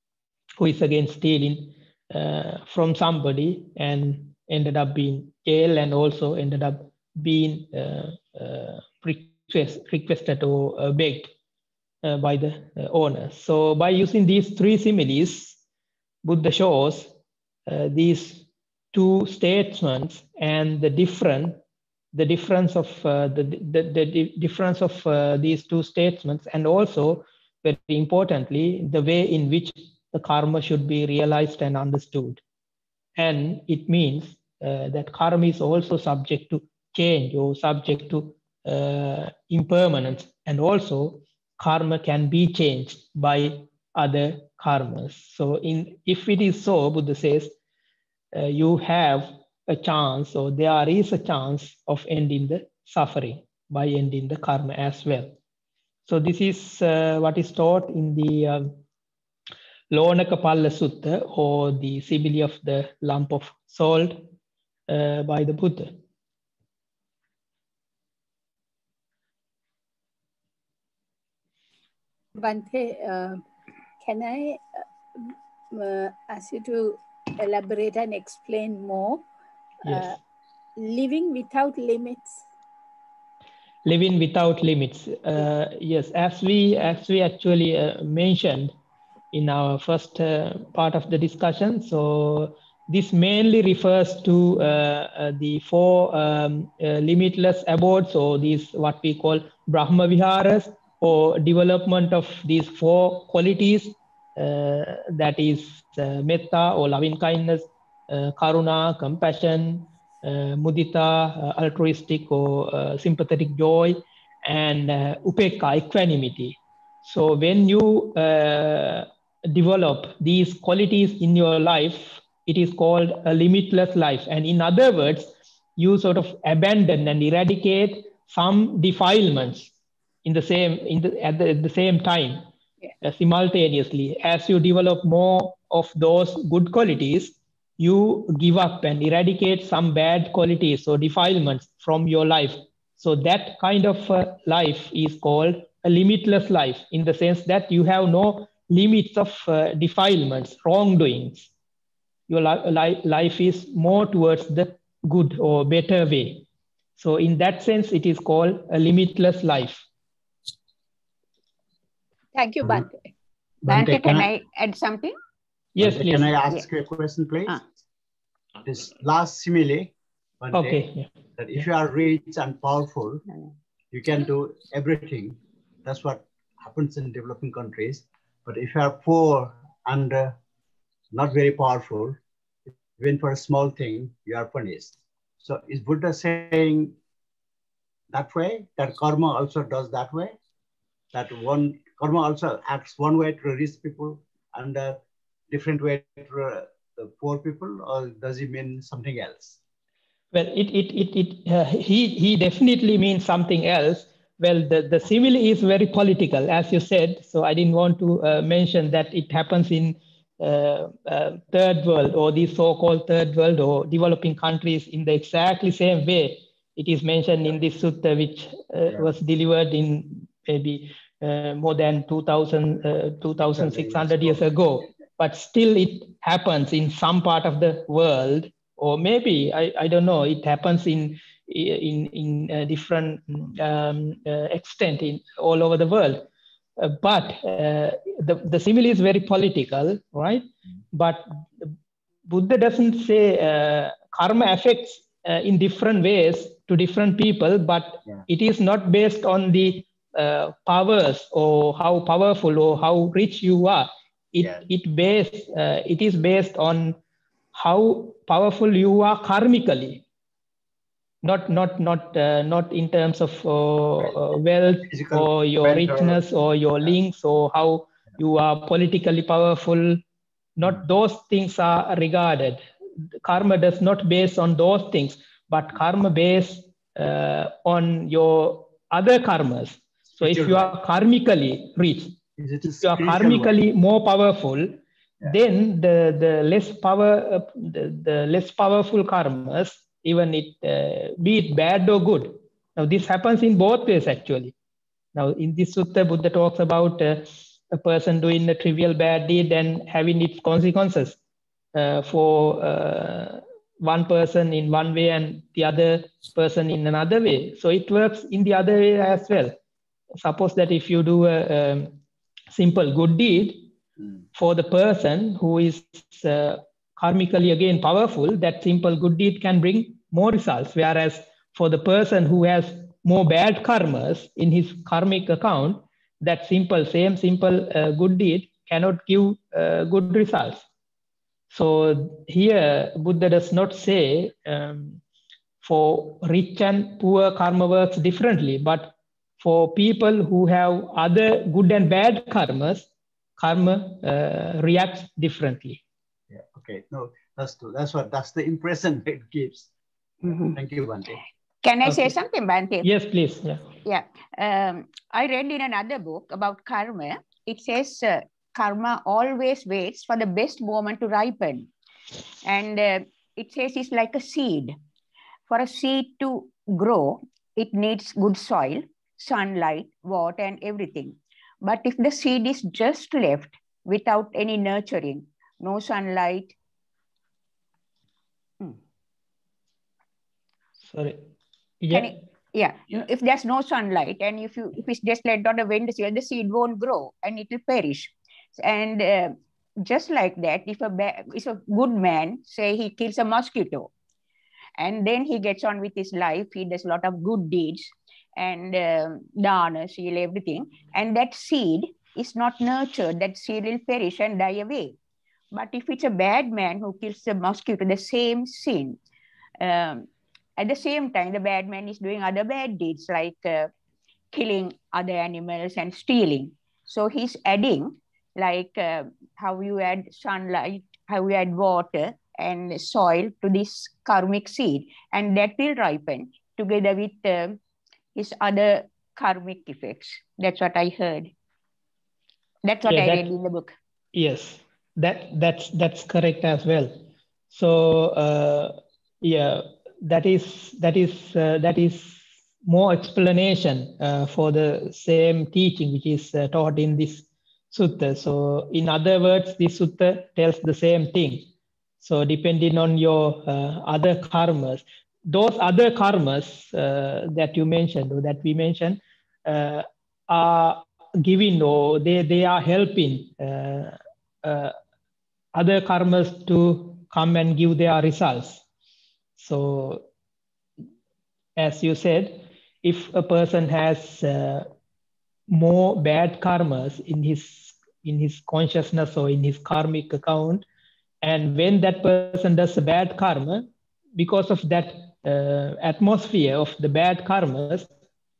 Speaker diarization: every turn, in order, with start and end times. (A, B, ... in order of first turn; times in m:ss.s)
0:00.6-0:11.3 A
0:12.0-0:15.6 A
0:16.2-0:17.1 A
0:17.7-0:21.6 A
0:22.1-0:32.4 A
0:33.2-0:47.5 A
0:48.3-0:55.3 A
0:56.0-0:58.8 A
0:59.9-1:04.3 A
1:04.9-1:06.0 A
1:12.4-1:13.4 B
1:14.0-1:14.8 B
1:15.7-1:19.2 B
1:19.8-1:20.1 A
1:19.8-1:20.2 B
1:20.8-1:22.4 B
1:23.8-1:28.7 A
1:29.3-2:09.7 A
2:10.2-2:12.4 A
2:13.0-2:31.5 A
2:32.3-2:36.4 A
2:37.0-2:39.8 A
2:42.3-2:43.1 B
2:43.6-2:44.3 C
2:43.7-2:45.1 D
2:45.8-2:46.3 A
2:45.8-2:47.6 C
2:48.6-2:50.8 C
2:50.5-2:51.6 A
2:51.4-2:53.2 C
2:53.9-3:00.4 C
3:01.1-3:02.2 C
3:02.8-3:07.0 C
3:08.1-3:10.3 C
3:11.1-3:19.6 C
3:20.3-3:56.2 A
3:43.5-3:44.5 C
3:56.8-4:01.7 A
4:02.3-4:17.0 A
4:14.4-4:14.6 C
4:17.5-4:20.0 A
4:21.2-4:30.0 A
4:24.8-4:26.2 C
4:30.6-4:32.6 A
4:33.2-4:42.2 A
4:40.2-4:40.7 C
4:42.4-4:43.6 C
4:42.8-4:54.5 A
4:55.1-5:01.2 A
5:01.7-5:09.5 A
5:10.2-5:12.0 A
5:12.5-5:13.7 A
5:14.3-5:30.6 A
5:31.5-5:35.0 A
5:35.6-5:45.8 A
5:46.3-5:49.7 C
5:50.5-5:51.2 C
5:51.6-5:52.9 D
5:51.8-5:52.2 A
5:52.8-5:53.6 A
5:53.8-6:01.7 D
6:02.4-6:04.8 D
6:05.5-6:16.5 D
6:20.8-6:21.2 A
6:21.8-6:22.1 A
6:21.9-6:33.9 D
6:34.8-6:45.0 D
6:45.5-6:49.0 D
6:49.6-6:53.7 D
6:54.3-7:07.6 D
7:08.1-7:11.3 D
7:12.6-7:13.7 D
7:12.8-7:13.3 A
7:14.1-7:17.0 A
7:17.5-7:31.5 A
7:32.0-7:44.8 A
7:45.5-7:48.6 A
7:49.4-7:50.1 A
7:51.6-7:54.7 A
7:55.5-8:00.6 A
8:01.2-8:07.9 A